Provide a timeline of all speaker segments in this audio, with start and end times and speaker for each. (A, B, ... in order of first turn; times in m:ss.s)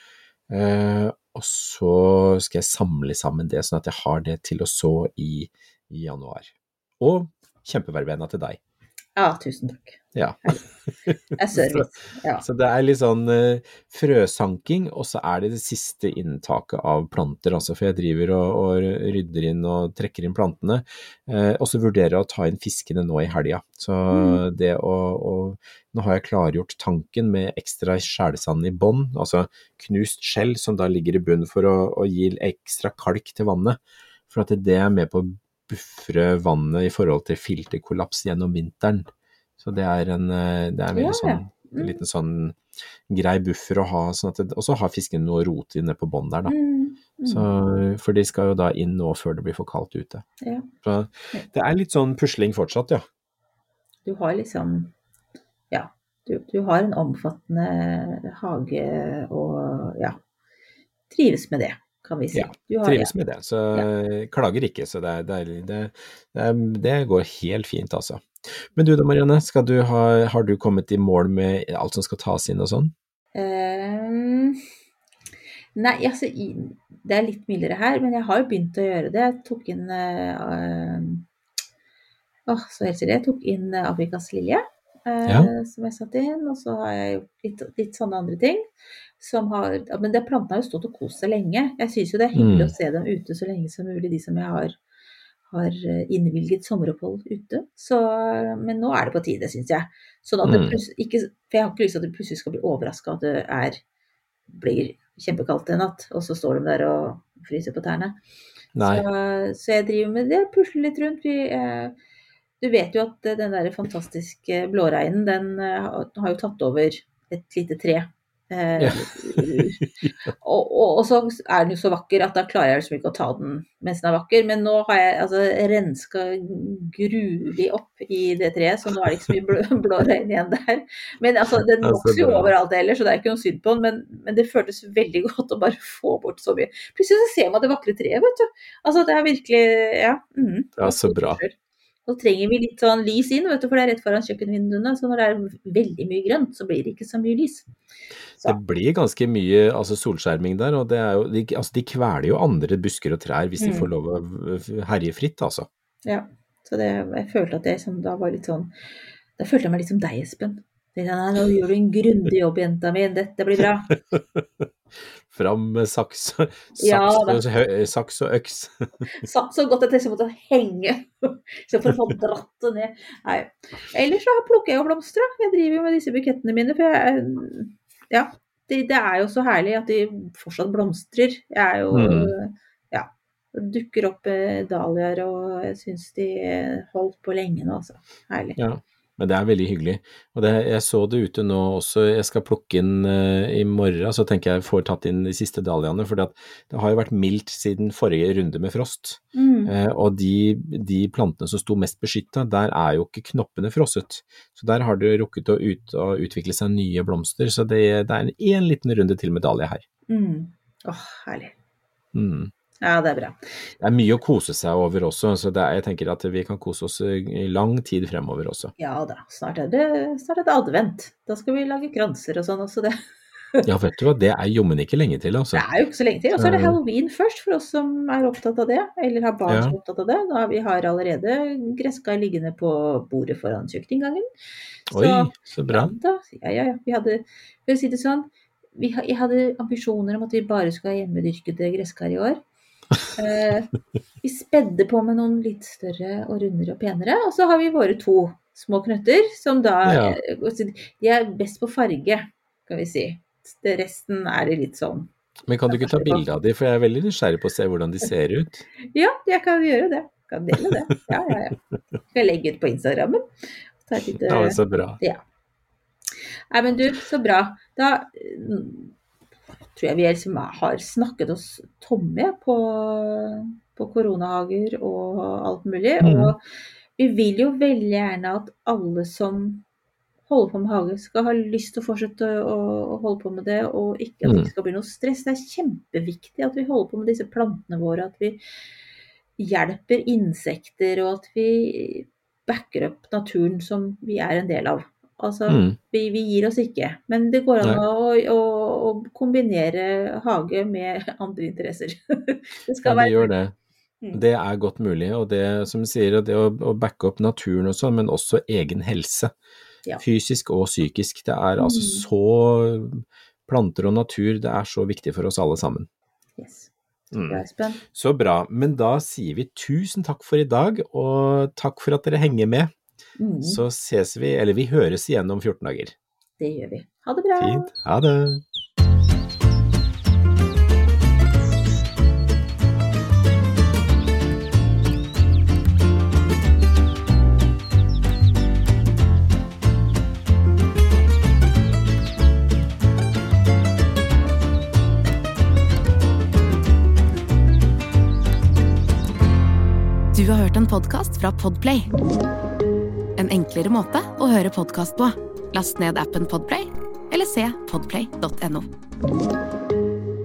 0:00.5-0:08.6 A
0:09.2-0:10.6 B
0:10.1-0:11.9 A
0:11.4-0:12.4 B
0:12.4-0:39.1 A
0:24.1-0:24.4 B
0:39.6-0:42.6 A
0:40.9-0:42.0 B
0:43.1-0:46.5 A
0:46.5-0:47.5 B
0:47.3-0:50.2 A
0:50.4-0:50.7 B
0:50.8-0:53.0 A
0:54.0-0:54.9 B
0:55.7-1:00.2 B
1:01.1-1:03.1 B
1:02.3-1:12.9 A
1:13.3-1:14.6 B
1:15.8-1:21.2 B
1:22.5-1:28.6 B
1:29.2-1:34.8 B
1:32.3-1:32.7 A
1:35.5-1:43.8 B
1:40.4-1:40.8 A
1:44.5-1:48.2 B
1:48.7-1:49.0 A
1:48.8-1:51.9 B
1:52.6-1:59.8 B
1:58.8-2:00.0 A
2:00.3-2:27.7 B
2:09.0-2:09.3 A
2:11.8-2:12.5 A
2:20.8-2:21.4 A
2:28.4-2:35.7 A
2:33.6-2:33.9 B
2:36.0-2:38.7 B
2:39.4-2:43.9 B
2:44.1-2:44.6 A
2:45.3-2:49.1 A
2:46.8-2:47.4 B
2:49.2-3:08.6 B
3:01.9-3:02.3 A
3:08.6-3:29.8 A
3:19.3-3:19.7 B
3:30.1-3:31.5 B
3:32.1-3:32.5 A
3:32.8-3:33.4 B
3:33.8-3:38.7 A
3:38.8-3:43.0 B
3:43.6-3:45.6 A
3:45.5-3:54.2 B
3:46.4-3:46.8 A
3:49.5-3:49.8 A
3:54.9-3:55.9 A
3:54.9-4:02.4 B
4:03.1-4:03.7 B
4:04.2-4:15.1 B
4:09.8-4:10.2 A
4:15.5-4:18.6 A
4:15.7-4:16.2 B
4:18.9-4:21.6 B
4:20.7-4:21.3 A
4:22.1-4:23.2 B
4:23.8-4:25.2 B
4:24.2-4:25.0 A
4:26.5-4:28.9 B
4:29.8-4:36.4 B
4:36.0-4:36.3 A
4:37.0-4:39.6 B
4:40.3-4:48.4 B
4:44.2-4:44.5 A
4:49.4-5:03.3 B
4:55.5-4:55.8 A
5:02.8-5:03.5 A
5:04.1-5:09.3 A
5:10.0-5:15.9 A
5:11.6-5:12.0 B
5:16.4-5:16.7 B
5:17.1-5:22.7 A
5:17.3-5:17.8 B
5:23.2-5:23.6 B
5:23.4-5:25.9 A
5:26.4-5:27.7 B
5:27.4-5:28.4 A
5:50.1-5:51.9 C
5:53.2-5:58.7 C